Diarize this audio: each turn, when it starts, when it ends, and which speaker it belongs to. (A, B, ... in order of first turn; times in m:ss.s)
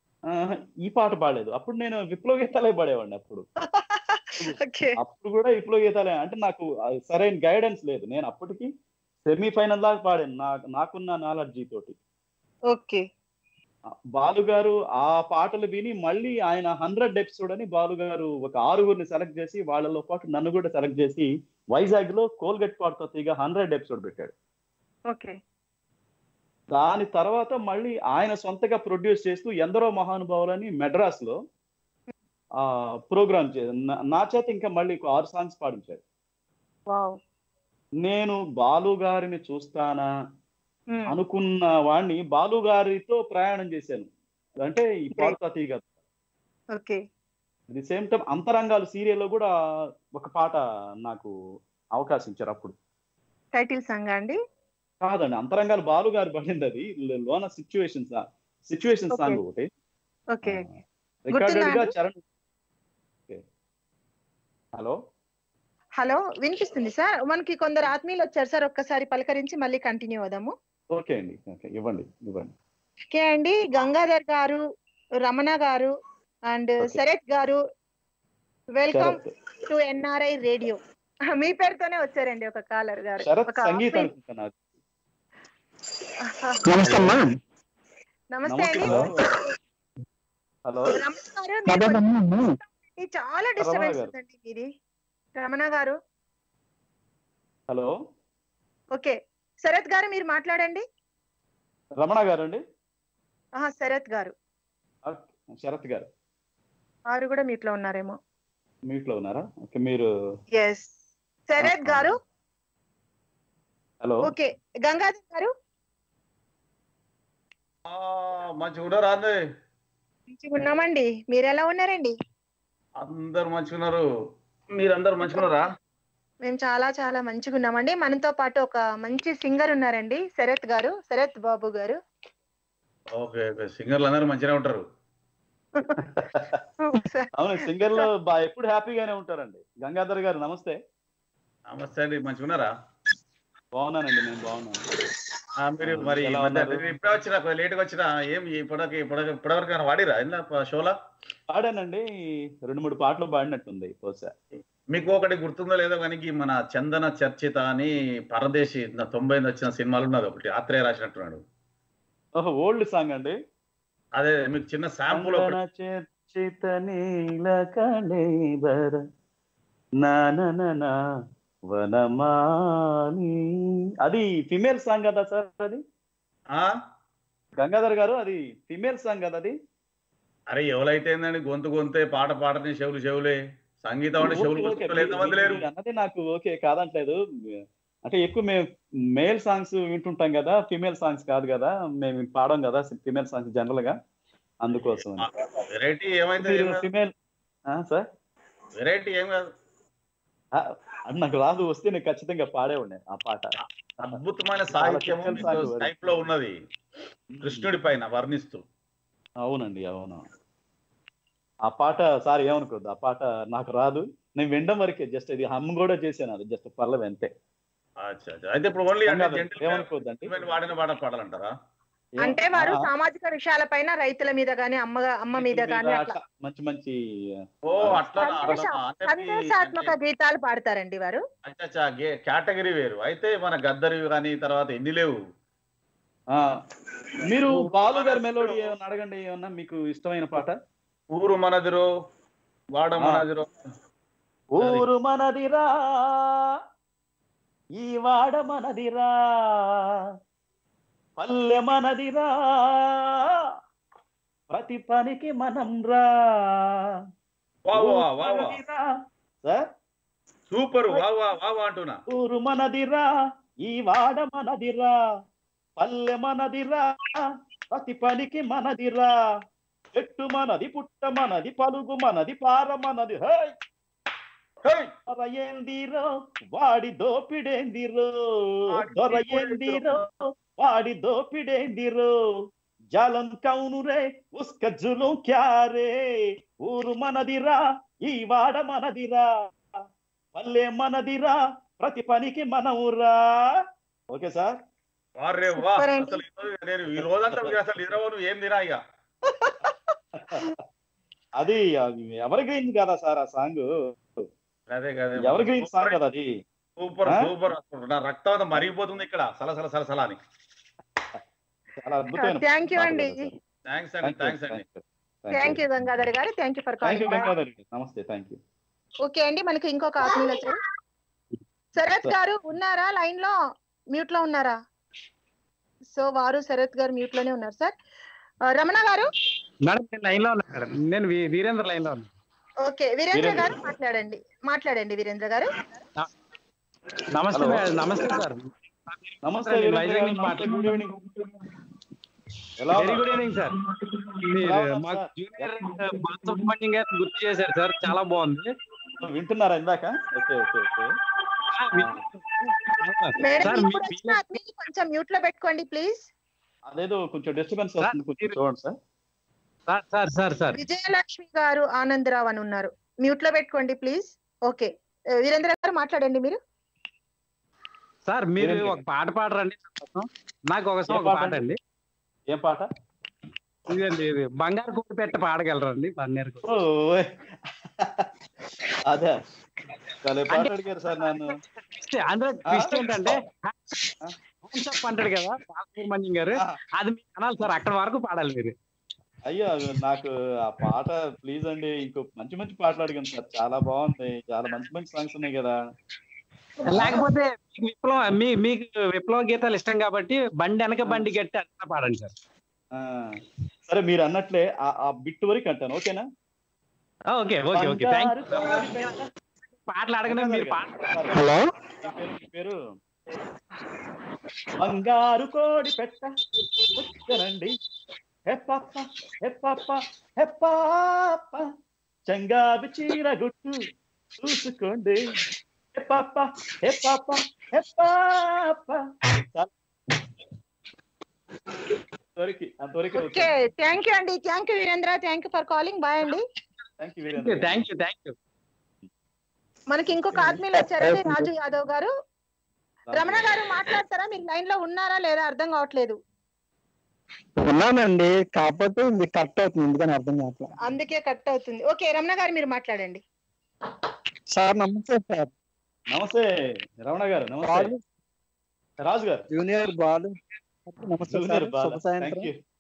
0:00.3-0:03.4 A
0:03.7-0:05.0 B
0:04.4-0:08.7 A
0:09.2-0:12.0 A
0:12.7-0:13.0 B
0:14.2-0:24.3 A
0:25.1-0:25.4 B
0:26.7-0:31.4 A
0:32.6-0:36.0 A
0:36.9-0:37.2 B
0:38.0-0:40.1 A
0:41.1-0:44.1 A
0:44.6-0:45.9 A
0:47.7-0:49.5 A
0:50.2-0:51.3 A
0:52.0-0:52.8 A
0:53.6-0:54.4 B
0:55.0-0:59.7 A
0:59.1-0:59.4 B
1:00.4-1:00.7 B
1:00.4-1:02.2 A
1:01.3-1:01.9 B
1:06.0-1:10.5 B
1:10.9-1:12.5 A
1:13.1-1:14.6 B
1:15.2-1:15.9 B
1:16.5-1:17.6 B
1:18.8-1:20.8 B
1:18.9-1:19.3 A
1:21.4-1:24.1 B
1:23.2-1:24.5 A
1:26.3-1:26.6 B
1:26.8-1:27.2 A
1:28.3-1:29.1 B
1:28.5-1:29.1 A
1:30.7-1:31.0 A
1:30.9-1:34.7 B
1:33.6-1:34.1 A
1:35.4-1:36.0 B
1:37.7-1:38.0 A
1:39.0-1:40.8 B
1:42.0-1:42.6 A
1:43.6-1:44.3 B
1:45.0-1:46.1 A
1:47.1-1:48.2 B
1:48.9-1:50.1 A
1:50.6-1:50.9 B
1:51.5-1:52.2 B
1:51.6-1:52.1 A
1:54.3-1:55.5 B
1:57.9-1:59.4 C
2:00.3-2:02.1 B
2:03.0-2:04.0 C
2:04.8-2:05.6 C
2:05.2-2:05.6 B
2:06.5-2:12.0 B
2:13.2-2:14.8 C
2:16.0-2:16.6 A
2:16.8-2:17.3 B
2:17.4-2:20.8 A
2:21.7-2:22.7 C
2:23.8-2:24.8 A
2:25.6-2:31.0 C
2:25.8-2:26.9 A
2:31.5-2:32.1 A
2:32.6-2:34.3 A
2:34.9-2:41.4 C
2:42.4-2:43.4 A
2:44.2-2:45.6 C
2:45.1-2:49.0 A
2:50.0-2:50.9 A
2:51.7-2:52.4 A
2:53.0-2:53.4 A
2:54.0-2:55.8 A
2:57.6-2:59.6 A
3:00.5-3:05.6 C
3:04.2-3:07.2 A
3:08.0-3:14.0 A
3:14.6-3:15.3 A
3:15.0-3:16.8 C
3:16.4-3:17.1 A
3:17.7-3:18.1 A
3:18.8-3:19.5 C
3:20.6-3:24.2 A
3:24.0-3:26.6 C
3:24.7-3:26.3 A
3:27.3-3:27.7 A
3:27.4-3:28.6 C
3:29.4-3:30.3 A
3:31.7-3:37.3 A
3:38.0-3:41.5 C
3:39.1-3:40.5 A
3:42.2-3:42.8 A
3:42.2-3:46.2 B
3:45.3-3:47.0 A
3:47.7-3:50.0 C
3:48.2-3:51.2 B
3:51.4-3:55.2 C
3:57.2-4:00.6 A
3:57.5-3:58.7 C
4:01.2-4:01.8 C
4:02.7-4:03.5 C
4:03.0-4:03.2 A
4:04.6-4:06.4 A
4:04.6-4:04.8 C
4:07.8-4:09.8 A
4:11.2-4:13.3 A
4:14.5-4:16.8 A
4:17.7-4:18.6 C
4:17.7-4:18.8 A
4:20.5-4:22.0 C
4:22.1-4:23.1 A
4:23.6-4:24.9 A
4:25.8-4:27.2 A
4:27.7-4:29.1 A
4:29.9-4:33.6 A
4:34.6-4:34.9 C
4:35.1-4:42.1 A
4:38.7-4:40.0 C
4:42.9-4:46.0 A
4:46.6-4:49.3 A
4:50.4-4:53.6 A
4:54.1-4:54.6 A
4:55.2-4:58.8 C
4:55.5-4:56.2 B
4:57.0-4:57.9 A
5:00.2-5:00.4 A
5:01.4-5:04.3 A
5:04.7-5:06.0 C
5:05.2-5:06.3 A
5:06.8-5:10.2 C
5:11.8-5:13.4 A
5:12.2-5:13.3 B
5:13.7-5:14.6 C
5:14.0-5:15.6 A
5:15.3-5:17.3 B
5:16.8-5:18.4 A
5:19.1-5:20.6 B
5:21.8-5:23.4 B
5:23.9-5:24.6 B
5:26.0-5:27.7 B
5:28.5-5:29.1 B
5:29.7-5:32.1 D
5:32.6-5:35.5 B
5:33.1-5:33.5 A
5:37.1-5:40.5 D
5:37.3-5:37.8 A
5:39.2-5:40.9 A
5:42.6-5:43.1 A
5:42.8-5:43.6 D
5:44.3-5:48.5 D
5:44.4-5:45.9 A
5:49.0-5:50.9 A
5:51.6-5:51.9 D
5:51.8-5:52.0 A
5:52.8-5:54.2 D
5:53.2-5:56.0 B
5:56.7-5:58.8 A
5:57.8-5:58.4 D
5:59.7-6:00.6 D
6:00.6-6:04.7 B
6:05.2-6:06.4 B
6:08.1-6:11.6 D
6:08.4-6:08.8 A
6:10.9-6:11.5 A
6:12.3-6:12.7 A
6:13.7-6:16.5 D
6:16.4-6:17.1 A
6:17.8-6:18.1 A
6:18.9-6:19.2 A
6:20.0-6:21.3 A
6:20.3-6:23.8 D
6:22.5-6:23.1 A
6:24.5-6:28.5 D
6:29.3-6:35.6 A
6:36.7-6:42.1 D
6:36.7-6:37.0 A
6:42.8-6:43.2 A
6:43.7-6:46.1 A
6:47.1-6:48.9 D
6:47.5-6:49.1 A
6:49.7-6:50.8 D
6:50.1-6:52.6 A
6:54.6-6:56.1 A
6:56.8-6:57.6 A
6:58.3-7:01.4 A
7:02.1-7:03.6 A
7:04.2-7:05.2 A
7:05.8-7:08.8 A
7:12.2-7:13.3 A
7:13.0-7:16.2 B
7:16.8-7:17.7 A
7:17.1-7:18.2 D
7:19.7-7:21.9 B
7:22.9-7:23.3 A
7:22.9-7:26.0 B
7:27.4-7:30.5 E
7:30.6-7:33.0 B
7:34.4-7:35.3 E
7:35.9-7:36.3 A
7:36.8-7:37.7 A
7:37.4-7:37.8 E
7:38.8-7:39.3 A
7:39.3-7:40.1 E
7:40.7-7:42.3 E
7:41.1-7:42.4 A